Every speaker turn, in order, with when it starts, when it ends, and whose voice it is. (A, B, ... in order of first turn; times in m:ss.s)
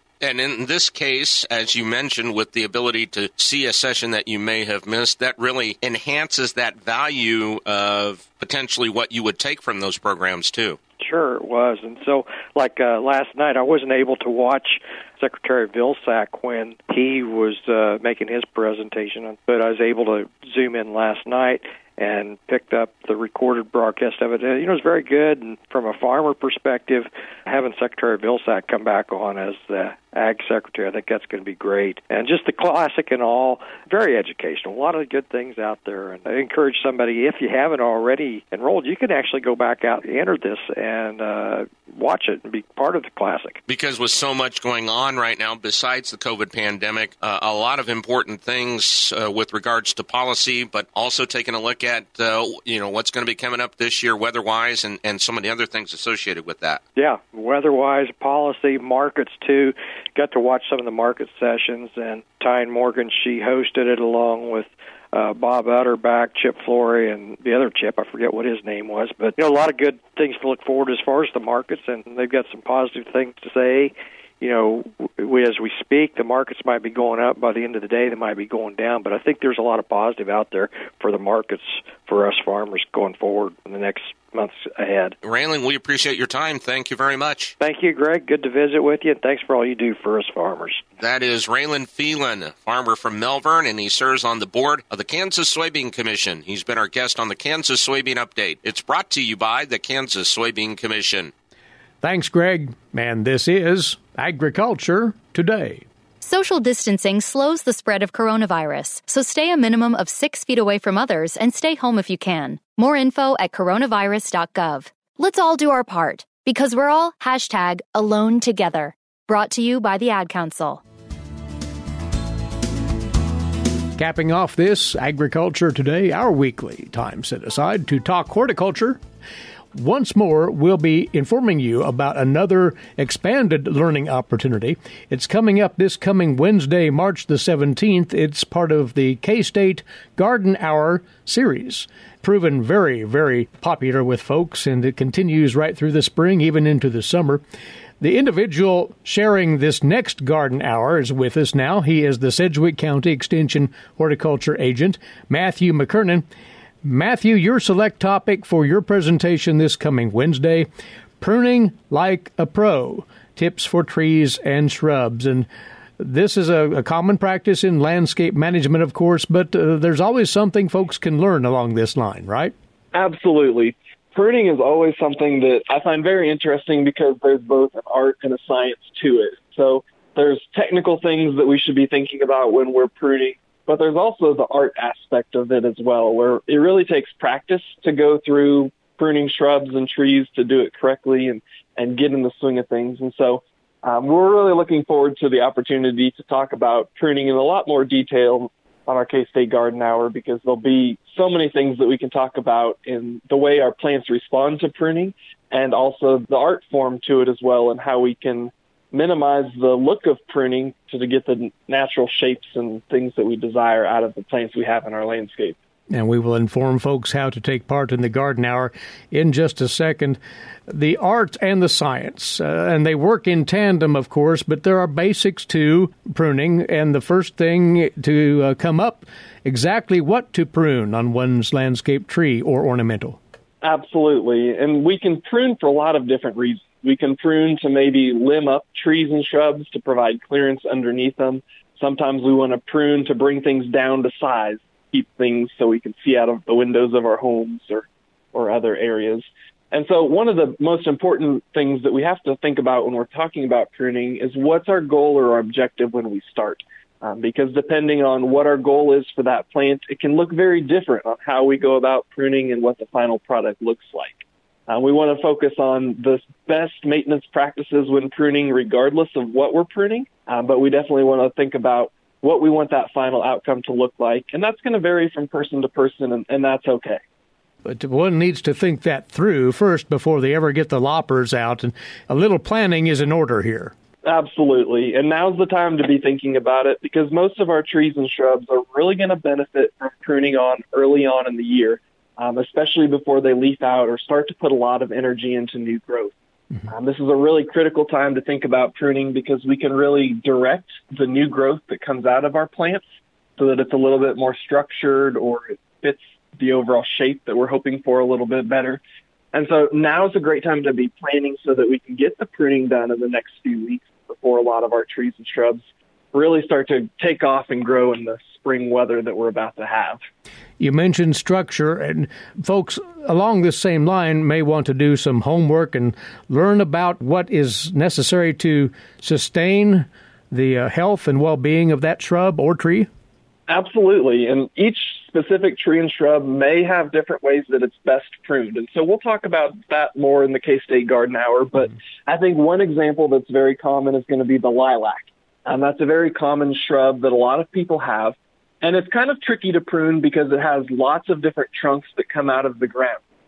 0:00.2-0:10.8 A
0:11.0-0:43.6 B
0:43.7-0:56.8 A
0:57.0-1:25.2 B
1:25.2-1:27.5 A
1:27.6-1:30.8 B
1:31.0-1:41.3 A
1:42.0-1:45.8 C
1:46.2-2:00.8 D
2:04.0-2:09.0 C
2:09.7-2:27.4 C
2:28.0-2:36.2 C
2:36.8-2:40.7 C
2:41.2-2:45.5 C
2:46.0-2:52.5 C
2:52.9-3:35.6 E
3:35.9-3:53.2 C
3:53.6-4:37.0 E
4:37.6-4:43.7 C
4:44.0-4:56.1 E
4:56.7-5:02.8 E
5:03.4-5:08.8 E
5:09.3-5:20.0 E
5:20.6-5:32.9 C
5:33.5-5:53.0 E